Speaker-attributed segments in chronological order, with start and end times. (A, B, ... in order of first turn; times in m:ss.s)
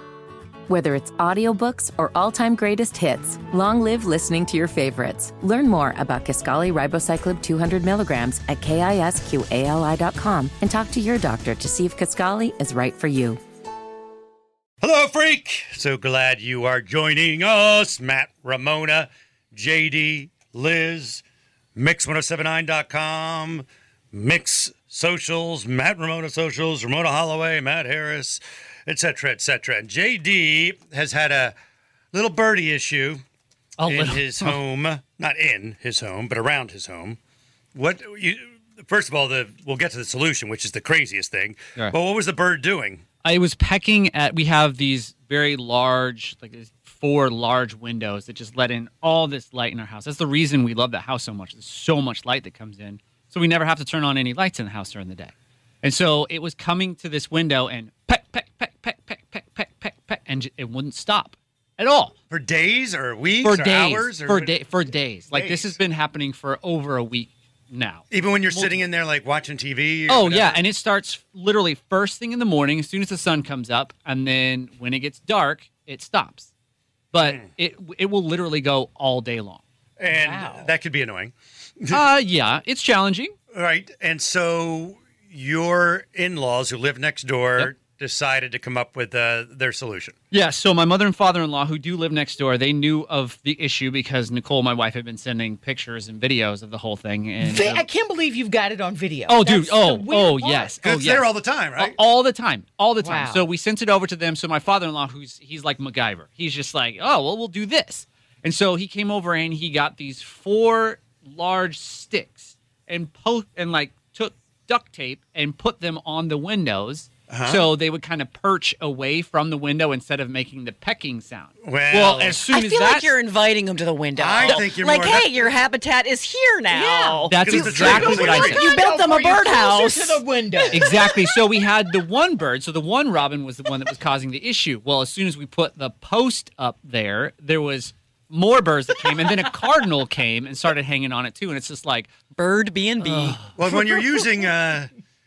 0:00.7-0:13.4 A
0:14.8-0:21.2 B
0:21.8-0:31.5 B
0:32.1-0:33.2 B
0:33.8-0:34.6 C
0:33.8-0:37.2 B
0:37.7-0:43.0 B
0:43.2-0:55.3 C
0:55.8-1:02.1 C
1:02.3-1:04.5 B
1:03.4-1:08.8 C
1:05.3-1:05.8 B
1:08.1-1:10.6 B
1:10.1-1:16.5 C
1:17.1-1:19.6 C
1:20.0-1:22.0 B
1:20.1-1:20.7 D
1:21.9-1:23.3 C
1:23.5-1:30.1 B
1:30.3-1:37.8 C
1:37.4-1:40.7 D
1:39.3-2:03.1 C
1:40.8-1:42.0 B
1:43.0-1:43.4 D
1:57.3-1:57.7 B
2:01.6-2:02.5 B
2:02.5-2:10.9 E
2:04.2-2:05.5 B
2:06.7-2:11.1 D
2:07.3-2:08.6 C
2:07.4-2:08.6 B
2:10.7-2:22.1 C
2:22.4-2:23.4 E
2:23.0-2:23.5 C
2:23.5-2:24.9 B